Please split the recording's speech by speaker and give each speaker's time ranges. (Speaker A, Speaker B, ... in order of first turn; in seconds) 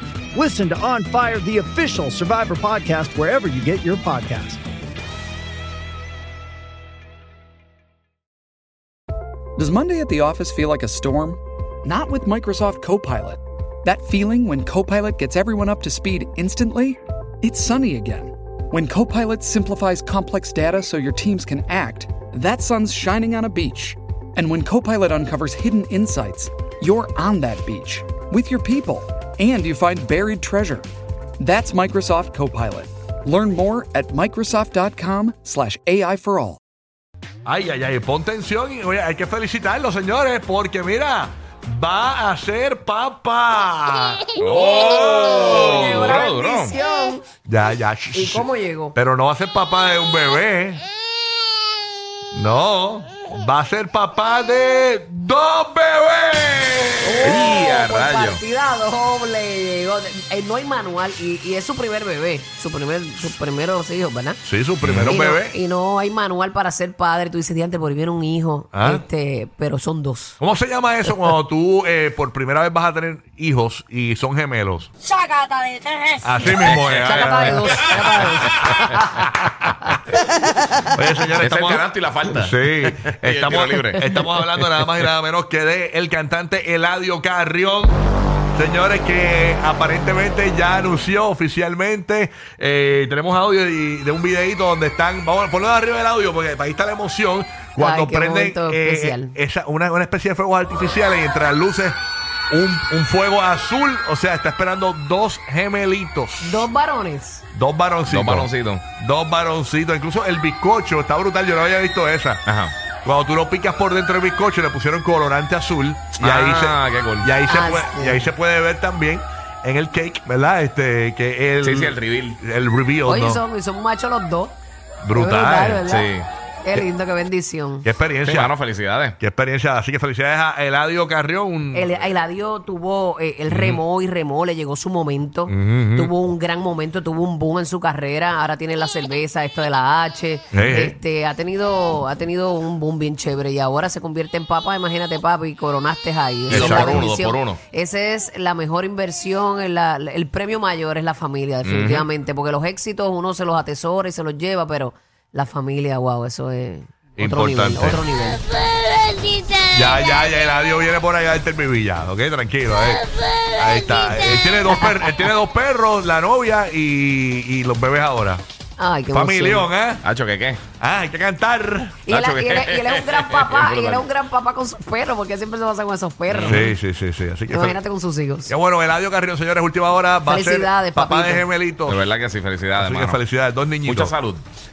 Speaker A: 0.3-4.6
Speaker B: 9.6-30.9, 31.4-36.6
Speaker C: 37.5-44.4, 47.5-50.8, 52.3-57.5, 64.5-65.6, 68.7-69.0, 70.4-74.9, 76.2-79.9, 80.9-88.0, 88.5-102.0, 102.5-106.7, 107.5-112.4, 113.0-123.4, 125.0-125.8, 127.8-128.6, 129.2-131.9, 133.5-133.8, 135.5-136.1, 140.5-140.9, 146.5-147.1, 157.2-158.0, 159.7-168.4, 169.1-170.0, 170.8-172.0, 176.5-177.8, 178.5-182.0, 182.7-184.2
Speaker D: 44.4-46.8, 57.2-58.4, 64.8-65.2, 76.6-77.5, 81.4-85.0, 108.1-108.8, 112.5-112.7, 116.2-117.3, 121.6-122.4, 125.9-126.3, 128.2-129.2, 146.5-147.6, 151.6-152.1, 170.0-170.6, 172.1-174.1, 176.3-176.7, 181.9-183.2, 183.8-184.4
Speaker E: 44.5-47.3, 48.1-49.0, 57.0-64.4, 65.1-70.4, 77.0-79.2, 97.8-99.4, 106.4-107.5, 117.5-118.3, 123.1-124.6, 125.1-126.1, 126.7-127.9, 131.7-158.5, 164.7-165.1, 168.8-169.7, 172.1-176.7, 177.5-178.5, 180.3-181.5